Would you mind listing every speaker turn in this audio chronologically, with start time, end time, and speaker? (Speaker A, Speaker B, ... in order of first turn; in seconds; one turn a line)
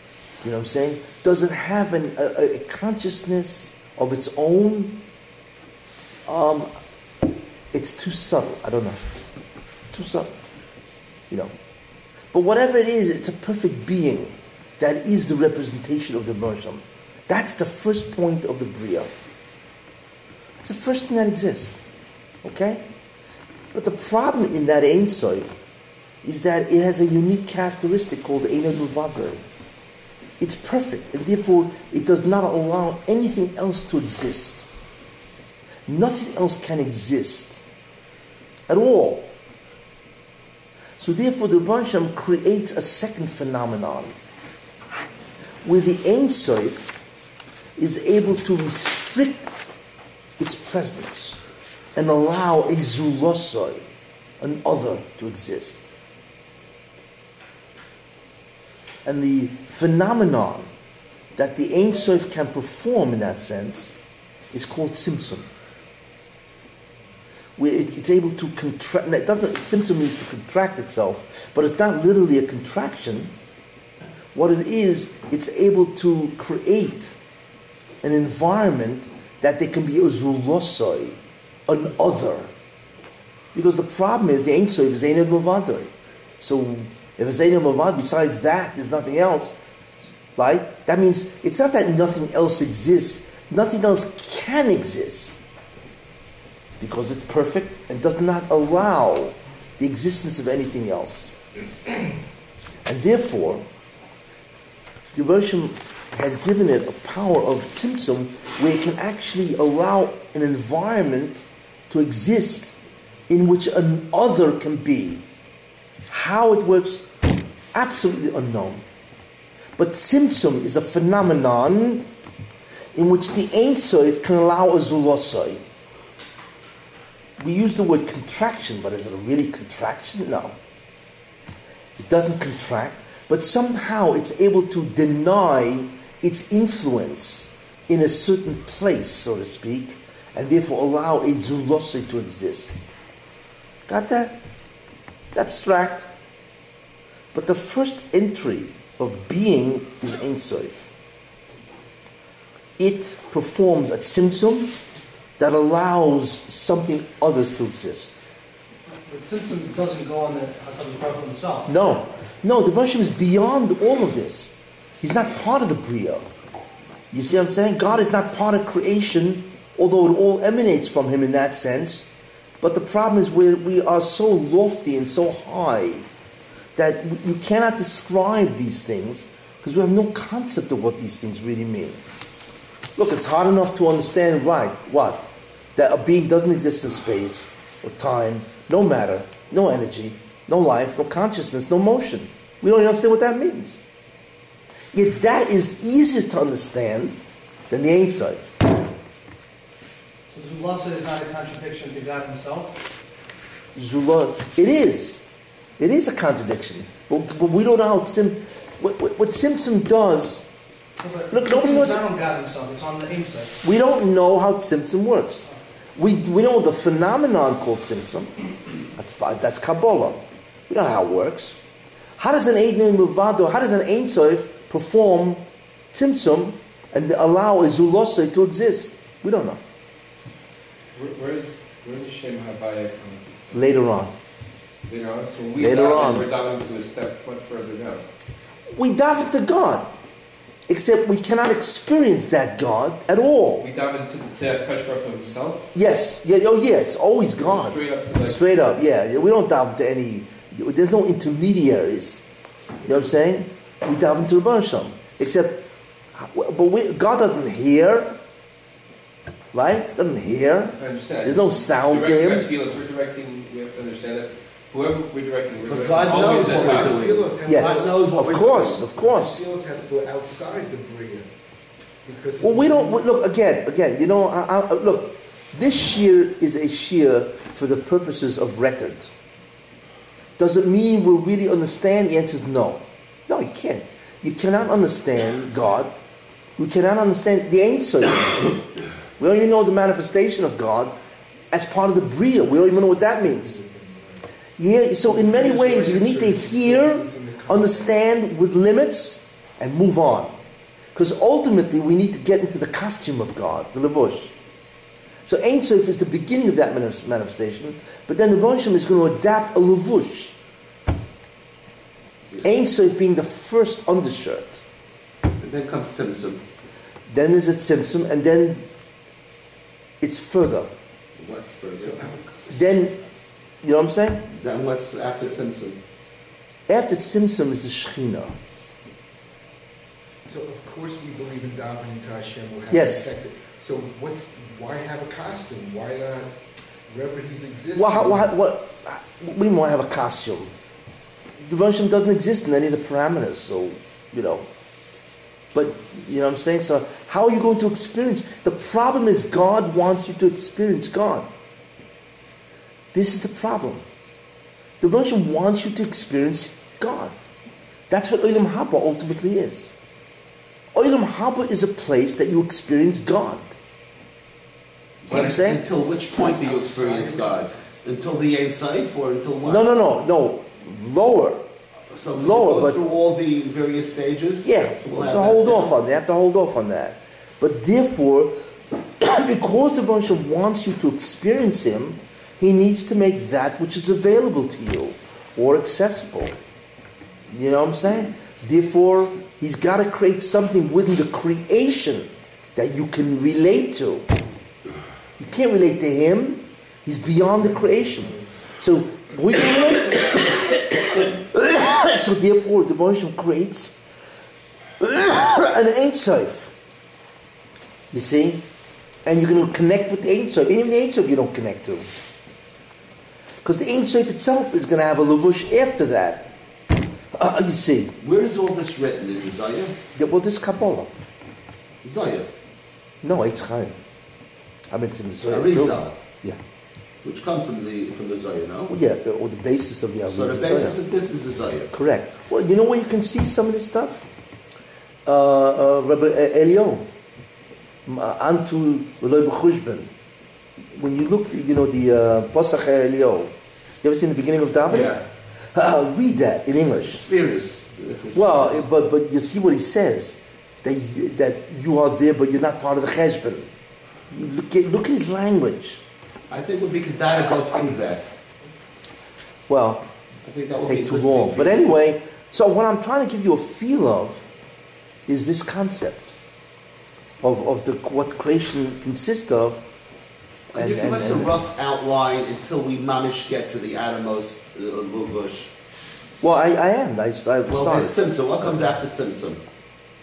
Speaker A: 0.4-5.0
Speaker A: 6.3-6.7
Speaker A: 7.7-9.1
Speaker A: 9.9-10.3
Speaker A: 12.3-19.1
Speaker A: 20.6-21.8
Speaker A: 22.4-22.8
Speaker A: 23.7-25.6
Speaker A: 26.2-29.4
Speaker A: 30.4-34.7
Speaker A: 35.9-37.6
Speaker A: 38.7-39.3
Speaker A: 41.0-44.1
Speaker A: 45.6-47.0
Speaker A: 47.8-49.5
Speaker A: 50.4-51.4
Speaker A: 51.9-53.9
Speaker A: 54.4-55.9
Speaker A: 59.0-60.7
Speaker A: 61.4-64.0
Speaker A: 64.5-65.5
Speaker A: 67.6-73.3
Speaker A: 74.3-77.1
Speaker A: 78.0-82.5
Speaker A: 83.5-89.6
Speaker A: 90.3-95.4
Speaker A: 96.8-101.3
Speaker A: 102.8-103.7
Speaker A: 105.1-112.8
Speaker A: 113.3-115.2
Speaker A: 116.1-117.1
Speaker A: 117.7-118.8
Speaker A: 119.8-122.1
Speaker A: 122.9-125.6
Speaker A: 127.4-130.6
Speaker A: 132.0-142.8
Speaker A: 143.9-144.4
Speaker A: 145.3-146.1
Speaker A: 147.3-150.9
Speaker A: 152.8-154.8
Speaker A: 155.4-158.1
Speaker B: 159.1-161.7
Speaker A: 161.7-166.2
Speaker A: 167.1-172.1
Speaker A: 172.6-176.1
Speaker A: 176.8-182.0
Speaker A: 183.0-193.8
Speaker A: 194.9-197.2
Speaker A: 197.7-198.6
Speaker B: 200.3-202.8
Speaker A: 203.7-205.2
Speaker A: 205.8-210.5
Speaker B: 211.0-213.6
Speaker A: 211.3-212.0
Speaker A: 213.6-218.3
Speaker A: 218.9-221.6
Speaker A: 222.2-229.6
Speaker C: 230.9-233.7
Speaker A: 233.5-234.1
Speaker C: 234.8-238.1
Speaker A: 235.6-236.3
Speaker A: 238.7-239.9
Speaker A: 240.7-243.6
Speaker C: 243.6-245.7
Speaker A: 245.7-252.2
Speaker C: 247.3-248.4
Speaker A: 252.8-258.1
Speaker A: 259.5-262.5
Speaker C: 260.8-267.1
Speaker D: 265.6-268.8
Speaker E: 266.1-271.3
Speaker A: 267.4-269.4
Speaker E: 272.0-273.0
Speaker A: 272.4-279.1
Speaker A: 280.4-285.9
Speaker A: 286.6-288.7
Speaker A: 289.2-290.9
Speaker A: 291.5-293.6
Speaker E: 292.4-294.2
Speaker A: 294.6-300.4
Speaker E: 295.0-297.9
Speaker A: 300.9-304.3
Speaker A: 305.2-310.4
Speaker D: 312.3-312.6
Speaker A: 312.4-314.6
Speaker D: 315.4-316.4
Speaker A: 317.1-318.7
Speaker A: 320.0-320.7
Speaker D: 321.2-322.1
Speaker E: 321.8-322.8
Speaker A: 322.5-323.0
Speaker A: 323.6-324.3
Speaker D: 324.3-325.8
Speaker A: 326.7-328.4
Speaker E: 330.3-338.3
Speaker A: 332.7-333.1
Speaker A: 337.7-340.5
Speaker A: 341.4-344.5
Speaker A: 345.5-351.3
Speaker A: 352.9-353.8
Speaker A: 354.8-357.2
Speaker A: 357.9-359.7
Speaker A: 360.7-363.6
Speaker A: 365.0-365.6
Speaker D: 365.0-369.7
Speaker E: 366.2-367.3
Speaker A: 369.4-371.4
Speaker D: 371.9-375.8
Speaker A: 372.1-372.8
Speaker A: 374.4-378.4
Speaker A: 379.0-386.4
Speaker A: 387.3-394.1
Speaker A: 395.2-403.8
Speaker E: 397.2-398.3
Speaker A: 404.8-406.5
Speaker A: 407.9-408.4
Speaker A: 409.1-411.9
Speaker A: 413.4-416.4
Speaker A: 417.1-417.9
Speaker D: 418.0-419.8
Speaker A: 419.9-420.9
Speaker D: 421.8-422.3
Speaker A: 423.0-423.8
Speaker A: 424.7-426.4
Speaker D: 425.2-426.0
Speaker D: 427.0-428.7
Speaker A: 428.7-430.8
Speaker D: 430.1-431.7
Speaker A: 431.7-434.1
Speaker A: 435.1-436.9
Speaker A: 437.9-439.9
Speaker A: 440.7-447.1
Speaker D: 446.9-448.7
Speaker A: 448.1-453.5
Speaker A: 454.1-455.8
Speaker D: 456.3-458.1
Speaker A: 459.5-459.9
Speaker D: 460.2-461.8
Speaker A: 460.6-464.2
Speaker A: 465.1-466.1
Speaker A: 467.2-469.6
Speaker D: 470.5-475.5
Speaker A: 470.5-471.4
Speaker A: 476.2-478.0
Speaker D: 477.4-479.4